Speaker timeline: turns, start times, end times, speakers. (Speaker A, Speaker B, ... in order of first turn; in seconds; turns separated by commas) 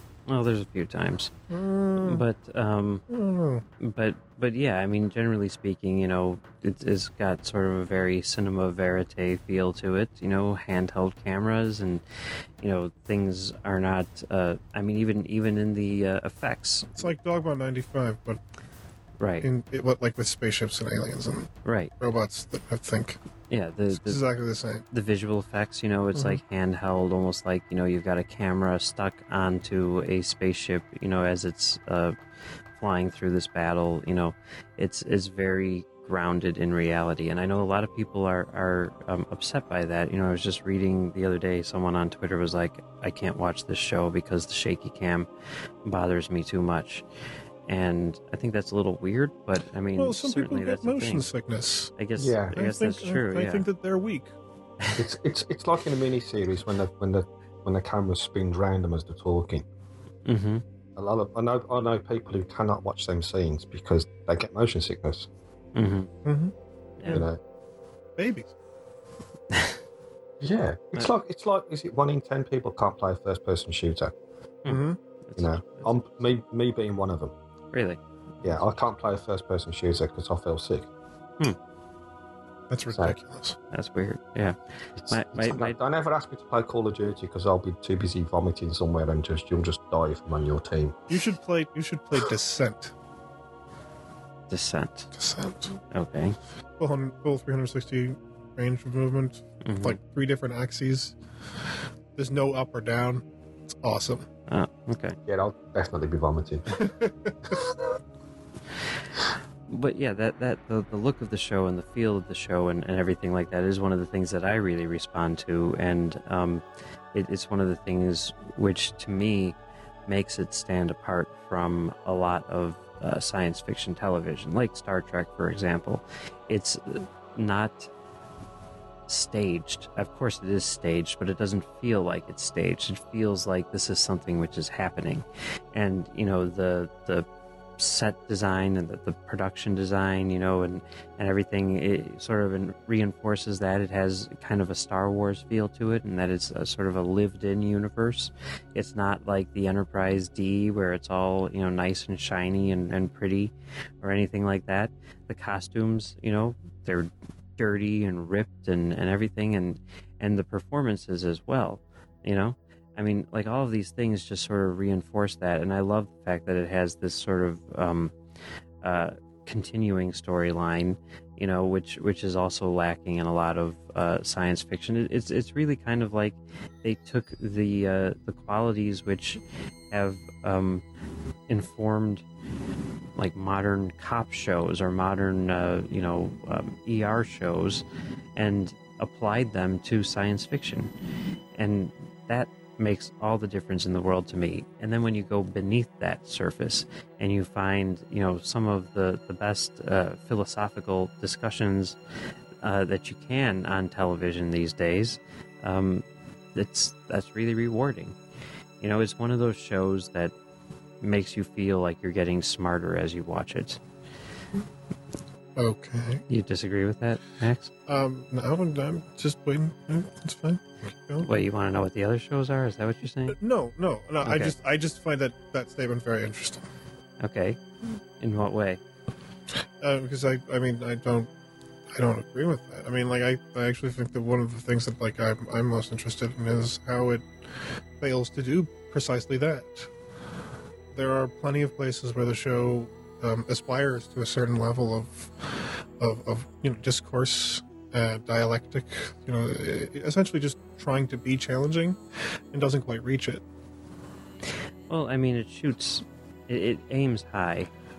Speaker A: 0.3-1.3, Speaker B: 1.5-2.2, Speaker A: 2.0-3.0, Speaker B: 3.1-3.6, Speaker A: 3.8-12.0, Speaker A: 12.6-17.1, Speaker B: 17.0-18.4, Speaker A: 19.2-19.5, Speaker B: 19.4-23.2, Speaker A: 21.6-21.9, Speaker A: 23.5-24.2, Speaker B: 23.9-24.8, Speaker A: 24.9-32.2, Speaker B: 26.1-26.4, Speaker A: 32.8-45.3, Speaker A: 45.8-47.0, Speaker A: 47.7-51.3, Speaker B: 50.0-51.9, Speaker A: 52.0-53.7, Speaker C: 52.2-52.6, Speaker B: 52.5-54.3, Speaker C: 55.0-59.6, Speaker A: 60.3-60.6, Speaker C: 61.0-65.3, Speaker A: 65.8-66.1, Speaker B: 66.2-66.5, Speaker A: 67.0-67.2, Speaker C: 67.1-67.4, Speaker B: 68.2-68.5, Speaker C: 70.4-74.1, Speaker A: 74.6-76.0, Speaker B: 74.7-75.0, Speaker C: 75.4-77.3, Speaker A: 77.7-78.6, Speaker C: 78.4-80.9, Speaker B: 82.7-83.6, Speaker C: 82.9-83.2, Speaker A: 83.7-85.8, Speaker C: 85.0-91.0, Speaker B: 91.1-92.9, Speaker A: 94.5-95.1, Speaker B: 95.2-95.8, Speaker A: 95.9-96.4, Speaker B: 96.8-101.2, Speaker A: 99.6-100.0, Speaker B: 102.2-103.2, Speaker B: 103.8-104.3, Speaker A: 104.5-105.2, Speaker C: 105.3-106.8, Speaker B: 106.7-107.8, Speaker A: 109.7-116.6, Speaker A: 117.1-127.9, Speaker A: 129.1-137.3, Speaker A: 137.8-168.2, Speaker A: 168.8-180.8, Speaker A: 181.5-182.2, Speaker A: 183.2-187.8, Speaker A: 188.4-190.9, Speaker A: 191.6-202.0, Speaker A: 202.6-208.2, Speaker A: 208.8-210.3, Speaker A: 211.0-213.8, Speaker B: 215.6-216.2, Speaker A: 216.3-217.7, Speaker B: 217.9-221.3, Speaker A: 221.2-223.4, Speaker B: 223.3-226.7, Speaker A: 224.2-224.5, Speaker A: 227.2-228.8, Speaker B: 229.8-231.3, Speaker B: 231.9-237.2, Speaker B: 238.0-239.9, Speaker B: 240.9-252.0, Speaker B: 252.5-253.4, Speaker A: 254.9-257.7